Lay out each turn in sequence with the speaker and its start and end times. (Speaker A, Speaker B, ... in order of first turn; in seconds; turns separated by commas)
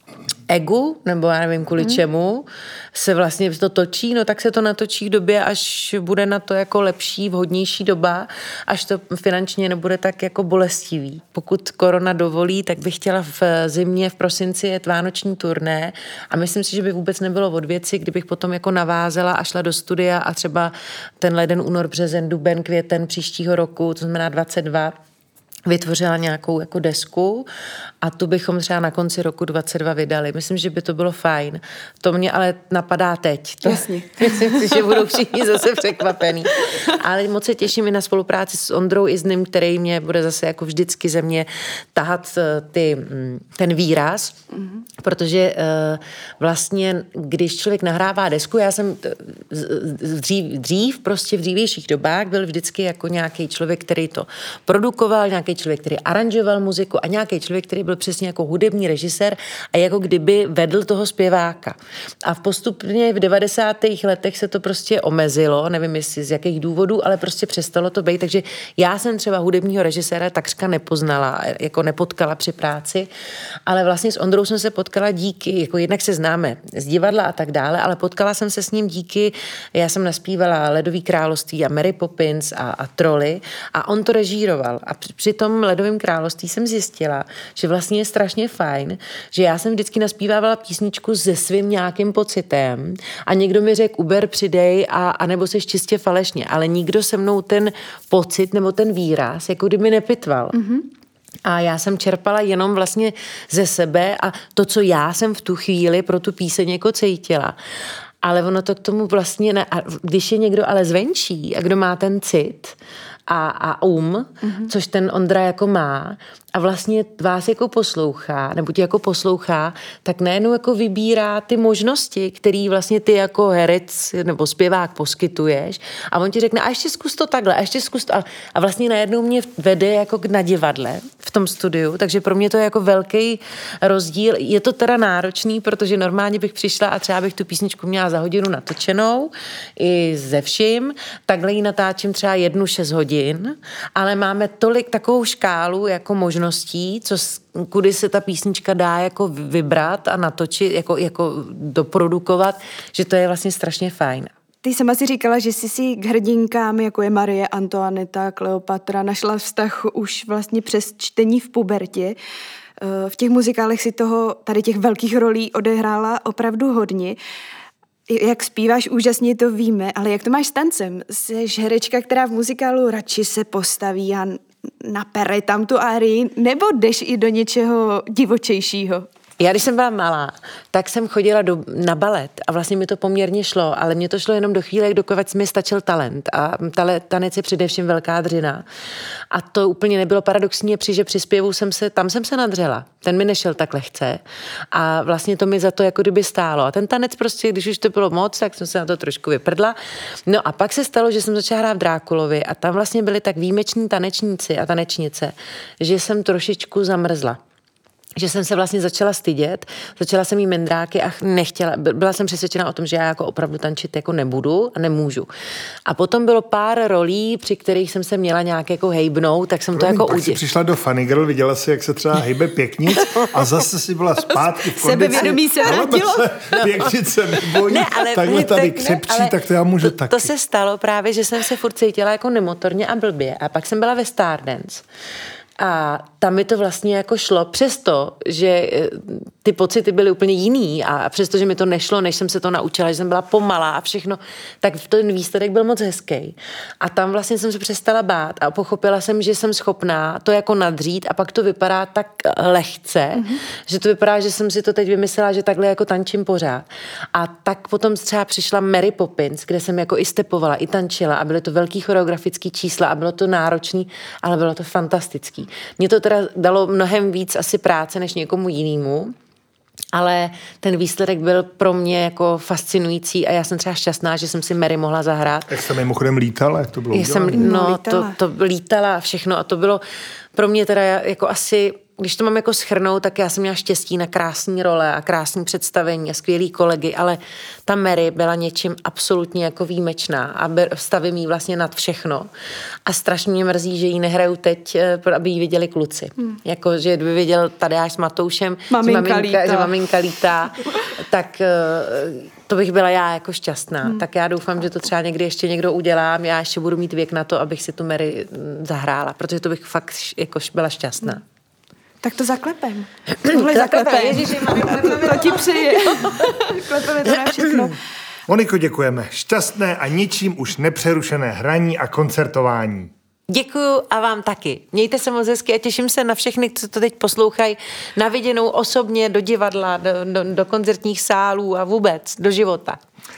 Speaker A: 0.5-24.9, Speaker A: 25.6-27.5, Speaker A: 28.0-44.4, Speaker B: 33.6-34.9, Speaker A: 45.0-73.1, Speaker A: 73.7-100.6, Speaker B: 100.5-100.8, Speaker A: 101.4-107.5, Speaker A: 108.2-112.8, Speaker A: 113.3-154.3, Speaker B: 114.4-114.7, Speaker B: 154.6-162.2, Speaker B: 162.8-167.2, Speaker B: 168.1-179.1, Speaker A: 179.4-188.6, Speaker A: 189.3-207.4, Speaker A: 208.2-215.3, Speaker A: 215.9-220.4, Speaker C: 219.7-230.3, Speaker B: 224.7-226.3, Speaker A: 226.5-226.9, Speaker A: 227.7-234.8, Speaker A: 235.6-269.1, Speaker A: 269.9-275.5, Speaker C: 275.5-277.5, Speaker A: 276.9-279.8, Speaker B: 277.3-278.1, Speaker A: 280.3-292.3, Speaker A: 292.9-311.2, Speaker B: 298.7-299.7, Speaker B: 312.0-317.8, Speaker A: 313.2-316.3, Speaker C: 318.3-322.9, Speaker A: 323.3-332.8